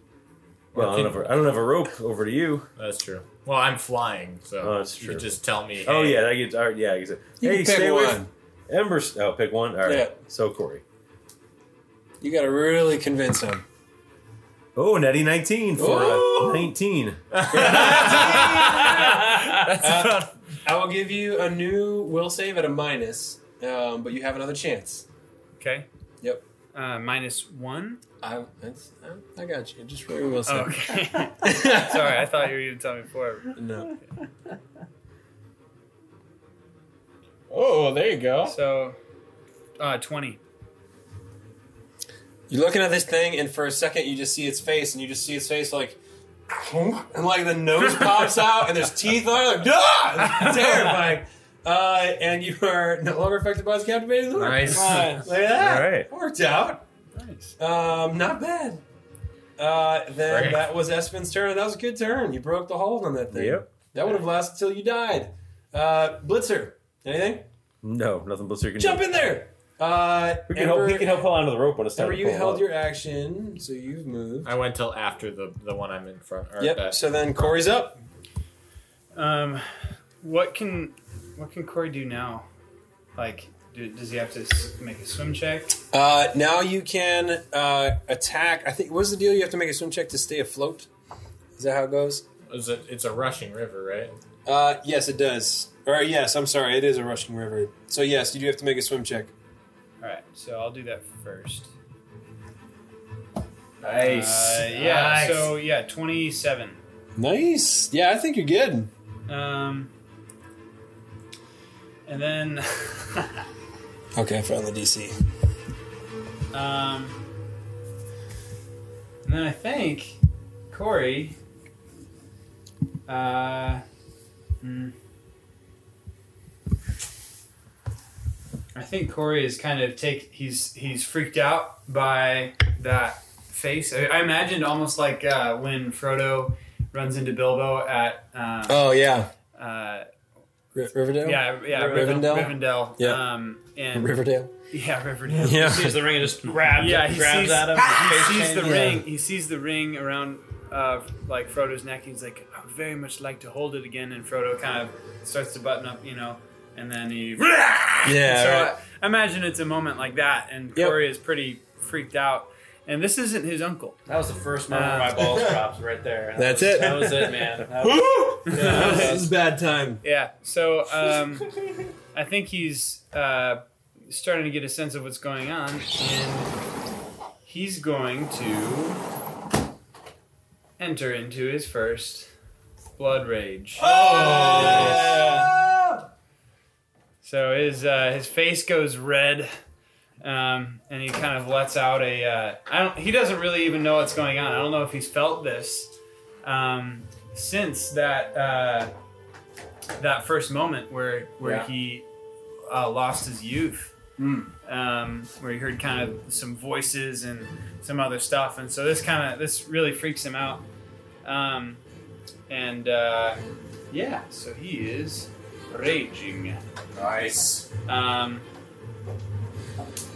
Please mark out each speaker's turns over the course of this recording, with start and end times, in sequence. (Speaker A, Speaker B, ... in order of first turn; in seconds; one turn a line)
Speaker A: 0.7-1.2
Speaker B: 0.7-2.7
Speaker A: 2.8-6.2
Speaker B: 4.6-10.8
Speaker C: 7.4-8.3
Speaker C: 9.8-10.1
Speaker C: 12.2-13.7
Speaker B: 14.8-18.0
Speaker C: 15.7-16.7
Speaker A: 17.3-19.1
Speaker C: 17.5-19.2
Speaker D: 18.9-19.7
Speaker E: 19.0-19.7
Speaker C: 19.8-25.1
Speaker D: 25.6-25.9
Speaker D: 26.7-28.0
Speaker C: 28.2-32.2
Speaker D: 30.4-33.6
Speaker C: 33.5-33.9
Speaker A: 37.5-38.6
Speaker D: 38.4-39.0
Speaker D: 39.8-40.4
Speaker C: 42.5-56.9
Speaker D: 50.3-50.7
Speaker A: 54.4-55.3
Speaker E: 54.7-55.3
Speaker B: 55.5-56.1
Speaker D: 57.1-57.5
Speaker C: 57.6-58.8
Speaker C: 59.6-67.5
Speaker A: 60.3-60.7
Speaker B: 63.3-63.6
Speaker B: 67.8-69.1
Speaker C: 68.8-71.2
Speaker B: 70.5-72.7
Speaker C: 71.9-74.5
Speaker A: 74.4-77.0
Speaker C: 76.6-78.0
Speaker D: 79.2-82.5
Speaker D: 83.2-85.8
Speaker C: 85.9-90.9
Speaker C: 91.6-92.2
Speaker A: 92.5-94.2
Speaker C: 94.5-99.3
Speaker D: 100.0-101.7
Speaker A: 103.8-105.6
Speaker D: 104.0-106.8
Speaker C: 107.2-108.9
Speaker D: 109.3-109.9
Speaker D: 112.1-113.4
Speaker C: 114.2-115.1
Speaker D: 116.5-117.2
Speaker D: 119.2-120.2
Speaker D: 120.7-121.4
Speaker D: 123.1-123.8
Speaker D: 124.6-124.9
Speaker D: 128.7-138.9
Speaker C: 138.7-139.3
Speaker D: 139.5-140.1
Speaker C: 140.7-143.2
Speaker D: 141.2-144.2
Speaker E: 141.7-142.4
Speaker C: 143.9-144.5
Speaker D: 144.7-146.1
Speaker C: 145.4-146.1
Speaker E: 145.5-149.0
Speaker D: 146.7-164.0
Speaker C: 148.6-149.0
Speaker C: 158.0-158.8
Speaker E: 164.1-169.2
Speaker D: 164.7-165.4
Speaker C: 166.4-170.0
Speaker D: 168.5-169.2
Speaker D: 170.0-171.6
Speaker D: 172.1-176.5
Speaker D: 177.4-179.0
Speaker D: 180.8-182.3
Speaker D: 182.9-185.4
Speaker C: 183.8-186.0
Speaker A: 183.9-185.2
Speaker D: 187.2-189.5
Speaker D: 190.2-198.9
Speaker D: 200.0-202.1
Speaker D: 202.7-203.9
Speaker C: 204.2-204.5
Speaker D: 204.7-210.7
Speaker D: 211.2-211.8
Speaker D: 212.5-216.6
Speaker A: 216.9-217.7
Speaker D: 217.9-218.4